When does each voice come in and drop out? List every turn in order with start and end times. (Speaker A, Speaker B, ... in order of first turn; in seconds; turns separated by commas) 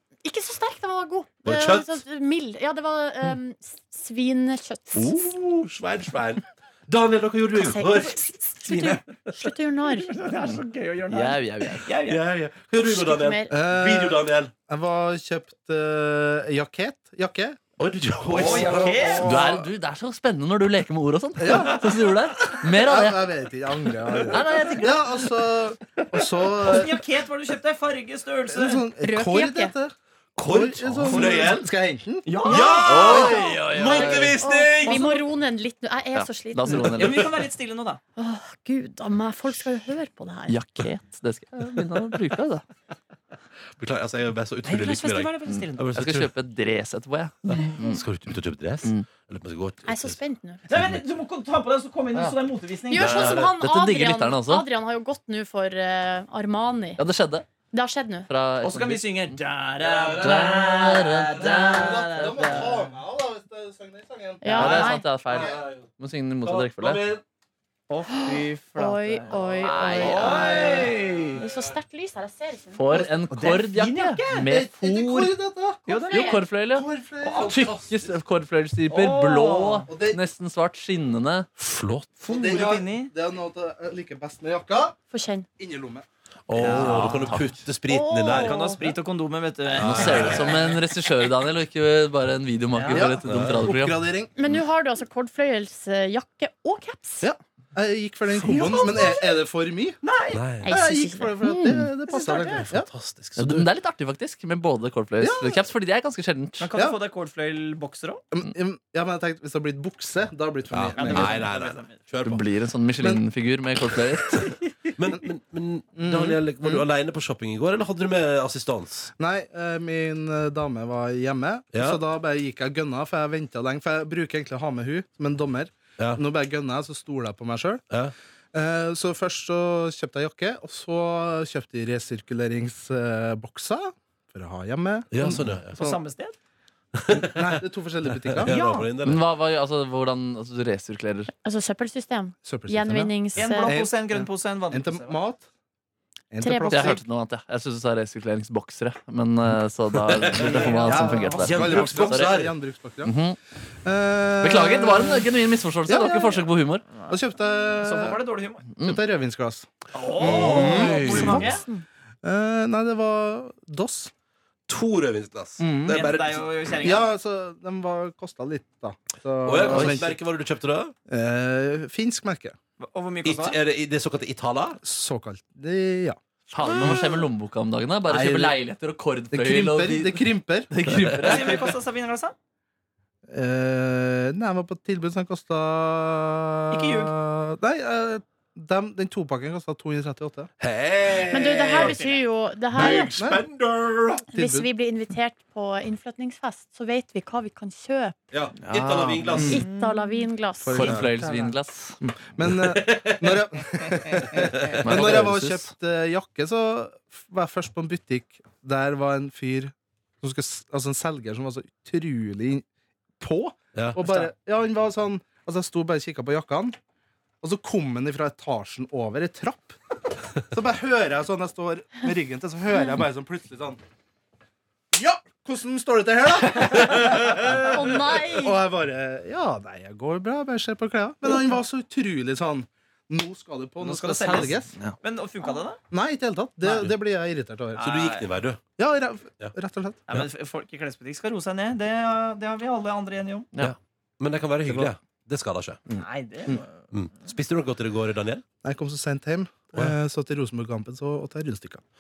Speaker A: 0.2-5.3, Speaker B: 1.4-2.0, Speaker B: 4.9-8.3, Speaker A: 7.6-10.2, Speaker C: 8.7-9.0, Speaker C: 9.9-12.2, Speaker D: 11.1-11.9, Speaker B: 12.1-14.5, Speaker A: 12.8-13.6, Speaker E: 13.5-17.6, Speaker B: 17.8-19.4, Speaker E: 18.2-19.6, Speaker C: 18.3-19.3, Speaker D: 19.2-23.3, Speaker E: 21.4-21.9, Speaker E: 22.6-27.0, Speaker D: 24.3-25.1, Speaker C: 26.6-28.8, Speaker E: 28.5-32.4, Speaker A: 29.0-29.7, Speaker B: 30.4-31.7, Speaker C: 31.1-31.5, Speaker C: 32.3-33.2, Speaker B: 32.5-35.2, Speaker A: 32.5-33.4, Speaker D: 32.8-34.4, Speaker A: 33.9-37.0, Speaker D: 36.1-37.3, Speaker C: 36.8-38.0, Speaker A: 38.2-40.6, Speaker D: 40.5-42.6, Speaker B: 43.8-46.3, Speaker C: 44.6-45.9, Speaker D: 45.5-48.0, Speaker B: 47.8-50.2, Speaker A: 49.9-50.7, Speaker C: 50.7-53.3, Speaker B: 50.7-51.0, Speaker A: 52.9-57.0, Speaker B: 52.9-53.6, Speaker D: 53.5-54.7, Speaker D: 57.0-57.5, Speaker A: 57.7-58.3, Speaker D: 58.3-59.4, Speaker C: 58.6-62.9, Speaker B: 59.8-61.5, Speaker D: 60.2-62.1, Speaker E: 61.4-64.9, Speaker A: 64.4-65.1, Speaker D: 64.5-67.0, Speaker B: 65.3-65.9, Speaker B: 66.4-67.2, Speaker C: 67.9-69.4, Speaker A: 68.1-73.0, Speaker D: 69.6-70.6, Speaker C: 70.0-71.4, Speaker B: 70.3-71.7, Speaker D: 72.7-75.3, Speaker C: 73.3-74.5, Speaker E: 74.3-75.9, Speaker C: 75.9-76.4, Speaker A: 75.9-76.5, Speaker D: 76.1-76.9, Speaker E: 76.7-77.7, Speaker B: 77.2-78.1, Speaker D: 77.4-81.5, Speaker C: 78.9-79.9, Speaker E: 79.9-80.2, Speaker B: 81.6-82.1, Speaker C: 82.2-83.1, Speaker E: 82.3-85.0, Speaker A: 85.1-85.5, Speaker E: 85.6-86.0, Speaker B: 86.5-88.8, Speaker C: 86.5-87.3, Speaker D: 86.7-87.5, Speaker A: 87.9-88.8, Speaker C: 88.3-90.8, Speaker B: 89.7-90.7, Speaker D: 89.8-94.0, Speaker C: 92.7-93.1, Speaker E: 92.9-94.3, Speaker B: 93.2-93.6, Speaker A: 94.4-97.3, Speaker E: 97.2-100.0, Speaker C: 98.4-99.4, Speaker C: 100.0-100.4, Speaker B: 100.3-100.8, Speaker A: 100.6-101.4, Speaker E: 100.7-102.9, Speaker D: 101.4-101.9, Speaker C: 102.1-102.7, Speaker B: 102.7-103.7, Speaker D: 103.4-106.7, Speaker E: 105.2-105.6, Speaker C: 106.6-108.2, Speaker E: 108.3-111.5, Speaker B: 110.7-112.4, Speaker C: 111.0-112.0, Speaker D: 112.2-114.5, Speaker B: 115.0-119.1, Speaker E: 116.0-116.8, Speaker E: 119.2-127.8, Speaker B: 121.7-122.0, Speaker E: 128.5-136.0, Speaker B: 135.1-135.9, Speaker C: 135.7-136.4, Speaker B: 136.9-137.6, Speaker E: 137.1-138.6, Speaker B: 138.2-139.2, Speaker C: 138.5-138.9, Speaker D: 139.0-141.3, Speaker A: 141.4-143.7, Speaker E: 142.4-145.5, Speaker C: 143.4-145.2, Speaker E: 146.3-147.0, Speaker A: 146.4-147.0, Speaker D: 146.7-152.4, Speaker B: 150.1-152.5, Speaker C: 150.4-151.4, Speaker E: 150.4-153.2, Speaker D: 153.0-153.4, Speaker E: 153.8-155.3, Speaker D: 154.4-156.8, Speaker E: 155.9-156.5, Speaker E: 157.1-158.2, Speaker C: 157.8-158.7, Speaker D: 158.8-159.0, Speaker E: 158.8-161.6, Speaker C: 159.9-161.6, Speaker B: 160.2-161.5, Speaker A: 160.8-161.8, Speaker E: 162.2-164.1, Speaker B: 164.7-166.5, Speaker E: 165.6-166.1, Speaker C: 165.9-167.1, Speaker E: 166.8-170.2, Speaker B: 169.4-170.9, Speaker E: 171.1-172.6, Speaker C: 172.8-173.6, Speaker B: 173.2-174.8, Speaker E: 174.8-177.1, Speaker D: 176.5-181.7, Speaker E: 178.1-178.6, Speaker E: 179.3-181.2, Speaker C: 181.2-182.3, Speaker E: 183.3-190.5, Speaker C: 186.7-187.1, Speaker B: 190.6-192.0, Speaker A: 191.3-193.2, Speaker C: 191.7-192.2, Speaker B: 192.7-194.3, Speaker E: 192.8-193.4, Speaker E: 194.3-194.7, Speaker A: 194.3-198.2, Speaker B: 198.3-199.7, Speaker D: 198.6-199.6, Speaker E: 199.3-199.6, Speaker C: 199.4-200.2, Speaker A: 199.4-201.0, Speaker E: 200.6-201.4, Speaker D: 200.7-202.0, Speaker E: 202.0-212.7, Speaker B: 202.5-203.4, Speaker B: 204.4-205.1, Speaker D: 204.8-205.7, Speaker E: 213.2-216.8, Speaker B: 213.8-214.0, Speaker E: 217.4-219.8, Speaker E: 220.5-223.8, Speaker E: 224.9-234.8, Speaker A: 227.5-228.6, Speaker C: 233.8-235.8, Speaker E: 235.9-237.9, Speaker C: 237.8-238.3, Speaker B: 237.8-238.6, Speaker E: 238.8-240.0, Speaker C: 240.1-243.5, Speaker B: 243.6-245.8, Speaker E: 244.7-244.9, Speaker E: 245.9-246.6, Speaker C: 246.0-246.7, Speaker B: 246.9-248.4, Speaker E: 248.6-251.8